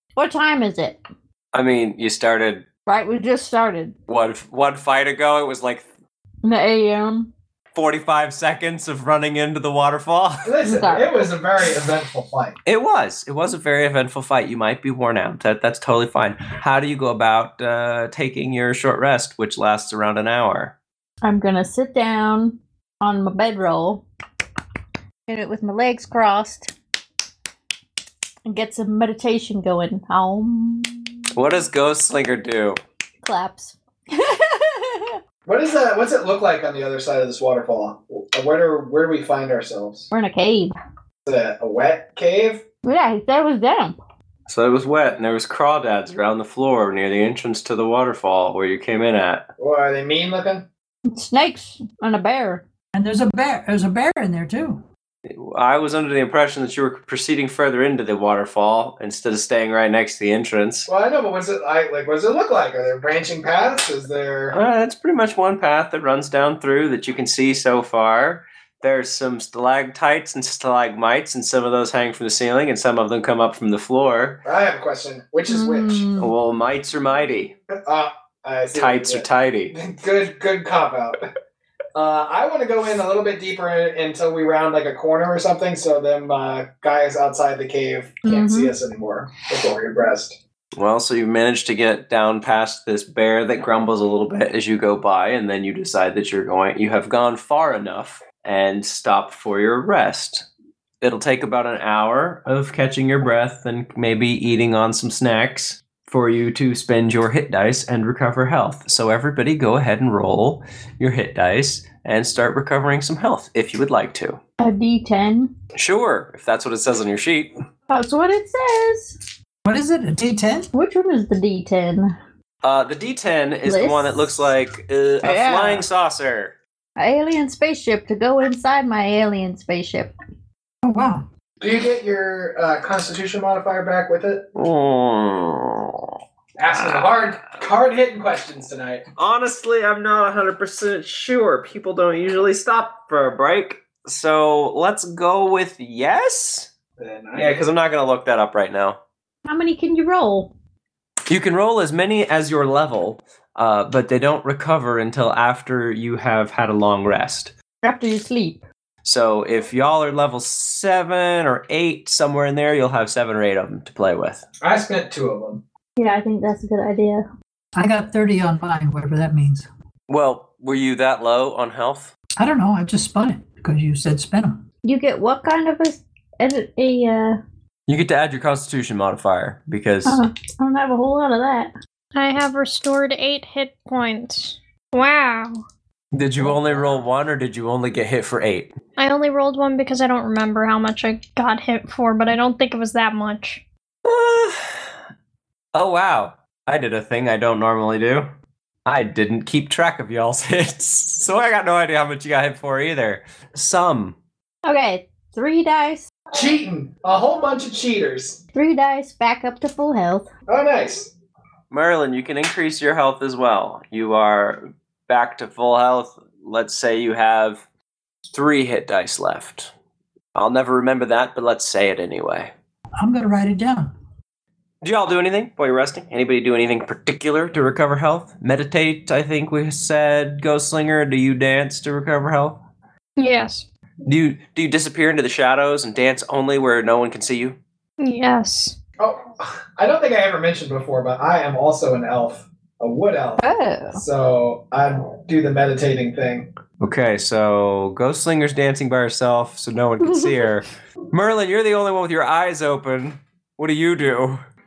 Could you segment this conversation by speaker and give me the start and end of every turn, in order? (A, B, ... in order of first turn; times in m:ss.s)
0:00.2-0:01.0 A
0:01.5-0:02.6 B
0:02.9-0:03.9 A
0:04.1-0:05.8 B
0:06.4-0:07.3 A
0:07.7-0:10.4 B
0:10.4-0:12.6 C
0:10.6-0:11.1 A
0:12.6-0:20.7 B
0:21.2-0:24.0 A
0:25.3-0:26.7 A
0:28.4-0:31.2 A
0:31.3-0:32.8 B
0:33.2-0:35.2 A
0:35.4-0:40.1 C
0:40.1-0:40.7 A
0:41.2-0:42.6 C
0:42.8-0:44.0 A
0:44.5-0:49.4 B
0:49.6-0:50.7 C
0:51.1-0:52.6 A
0:52.9-0:54.8 D
0:55.2-1:00.9 B
1:00.9-1:04.6 C
1:04.5-1:14.4 B
1:14.4-1:16.1 C
1:15.5-1:16.3 A
1:16.2-1:17.5 B
1:17.8-1:21.2 C
1:18.7-1:19.7 B
1:21.9-1:30.4 C
1:28.2-1:28.7 A
1:30.8-1:40.4 B
1:41.0-1:54.4 B
1:54.6-1:55.5 A
1:55.7-1:57.5 B
1:57.9-1:59.2 A
1:59.6-2:00.7 D
2:00.7-2:02.1 A
2:02.6-2:06.5 B
2:03.6-2:04.2 A
2:05.2-2:05.8 A
2:07.0-2:10.1 A
2:10.8-2:11.2 D
2:11.6-2:14.5 C
2:14.5-2:16.1 B
2:16.6-2:19.0 C
2:19.2-2:26.7 B
2:27.0-2:27.7 C
2:27.4-2:29.0 B
2:29.4-2:30.5 A
2:31.3-2:37.5 B
2:37.8-2:38.6 A
2:39.0-2:44.4 B
2:44.6-2:45.6 C
2:46.0-2:47.2 A
2:47.7-2:49.7 D
2:50.1-2:52.1 B
2:52.4-2:54.6 D
2:54.8-2:57.4 A
2:57.9-3:00.2 B
3:00.0-3:01.7 A
3:02.1-3:05.6 E
3:06.1-3:08.7 B
3:09.0-3:13.6 E
3:14.0-3:14.9 B
3:15.7-3:18.3 B
3:18.8-3:24.2 B
3:24.6-3:26.1 A
3:26.3-3:28.4 C
3:28.5-3:30.3 A
3:30.5-3:31.1 C
3:31.7-3:37.6 B
3:38.3-3:39.7 B
3:40.3-3:42.5 B
3:43.0-3:43.9 D
3:44.8-3:52.6 B
3:53.2-3:53.6 E
3:54.0-3:57.6 B
3:58.0-3:58.7 E
3:59.0-4:03.4 C
4:03.4-4:04.0 A
4:03.9-4:06.5 C
4:06.8-4:14.4 B
4:10.0-4:10.3 A